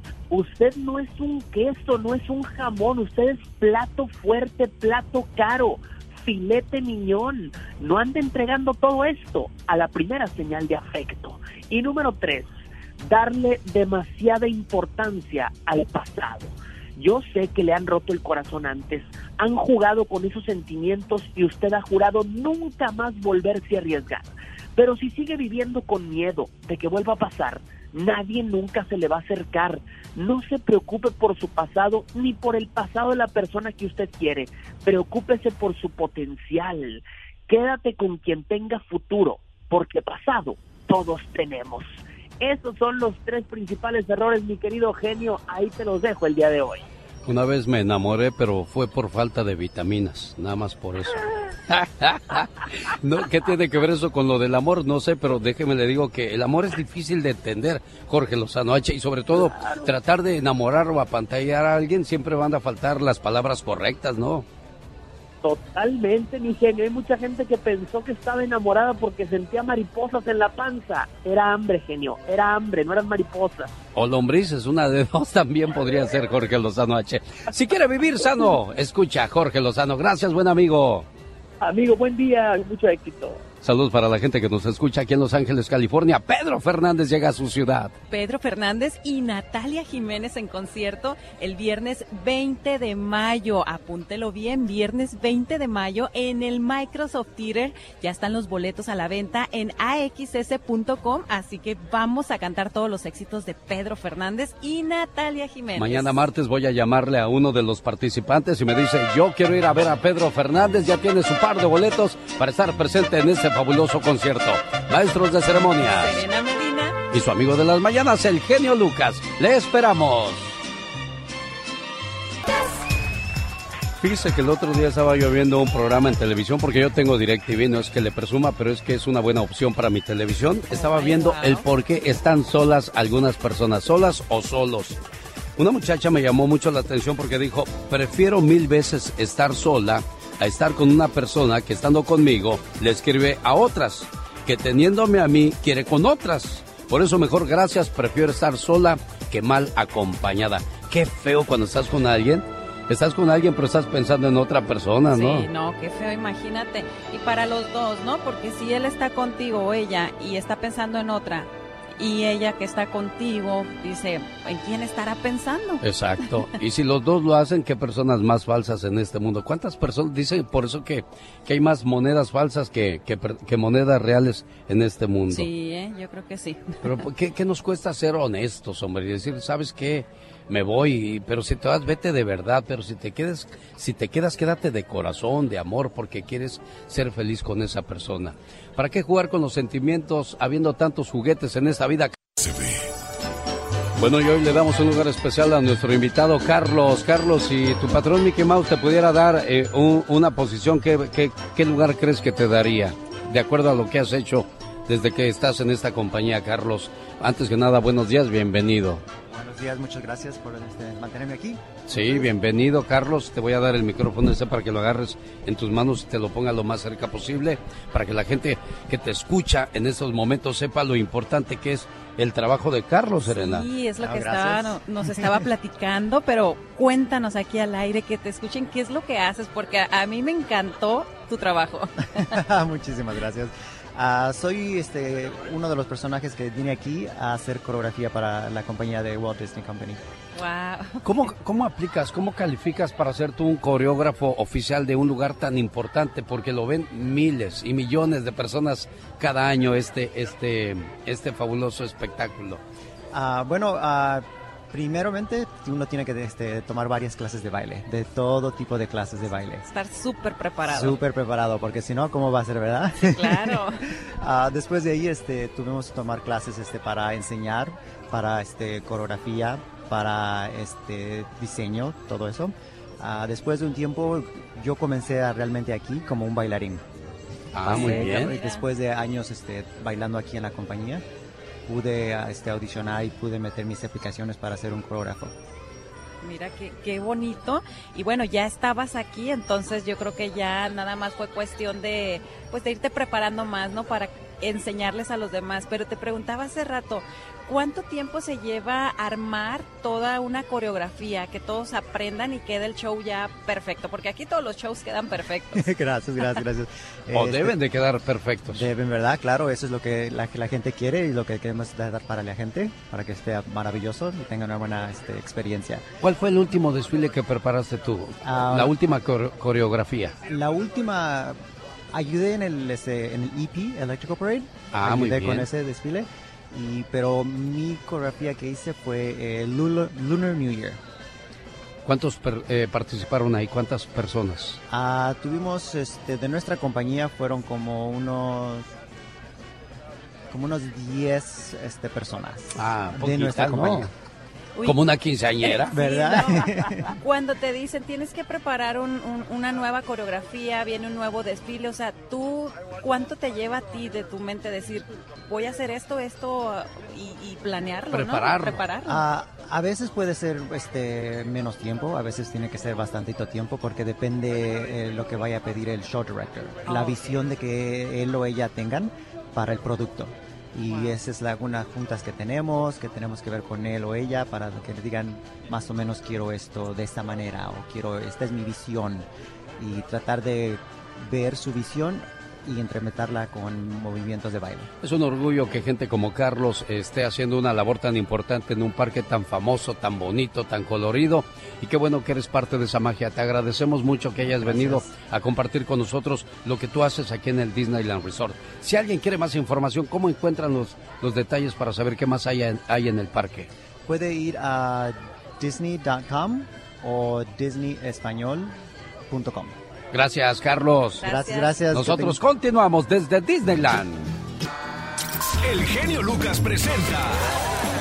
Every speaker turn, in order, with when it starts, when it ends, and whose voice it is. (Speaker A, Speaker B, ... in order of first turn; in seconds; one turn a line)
Speaker A: 0.3-46.9
Speaker B: 47.2-64.5
Speaker A: 59.4-59.9
Speaker A: 65.4-73.7
Speaker B: 74.0-81.1
Speaker A: 81.6-83.4
Speaker B: 83.6-87.9
Speaker C: 88.1-106.1
Speaker B: 105.8-116.2
Speaker C: 115.8-117.0
Speaker B: 117.1-120.5
Speaker B: 124.0-135.0
Speaker C: 130.7-131.7
Speaker B: 135.6-155.5
Speaker C: 155.1-165.8
Speaker B: 165.8-175.5
Speaker C: 175.3-176.8
Speaker B: 176.8-192.2
Speaker D: 192.4-192.7
Speaker B: 194.0-209.0
Speaker E: 209.3-212.3
Speaker B: 211.9-223.7
Speaker C: 223.3-232.3
Speaker E: 224.0-225.4
Speaker E: 232.2-240.0
Speaker C: 240.4-241.0
Speaker B: 241.0-252.6
Speaker E: 253.1-259.6
Speaker C: 259.6-261.0
Speaker E: 260.7-276.9
Speaker C: 263.0-263.9
Speaker B: 277.5-278.3
Speaker C: 277.6-278.6
Speaker E: 277.6-281.1
Speaker E: 281.7-285.4
Speaker C: 286.2-306.4
Speaker E: 305.6-307.6
Speaker B: 307.1-308.7
Speaker E: 308.5-315.8
Speaker B: 316.0-320.1
Speaker E: 318.2-318.8
Speaker E: 320.3-321.4
Speaker E: 321.9-330.8
Speaker B: 324.7-325.5
Speaker B: 331.9-334.6
Speaker E: 334.7-338.7
Speaker E: 340.3-343.9
Speaker B: 342.6-343.9
Speaker C: 344.6-344.8
Speaker B: 344.6-345.7
Speaker C: 345.4-359.1
Speaker E: 345.7-346.9
Speaker B: 357.9-358.6
Speaker E: 358.9-379.1
Speaker C: 366.7-367.2
Speaker E: 379.6-384.7
Speaker B: 384.8-403.5
Speaker E: 394.2-394.9
Speaker E: 403.9-408.6
Speaker E: 409.1-409.6
Speaker B: 409.9-411.1
Speaker C: 411.0-411.6
Speaker E: 411.0-412.2
Speaker B: 411.7-414.1
Speaker D: 415.4-417.3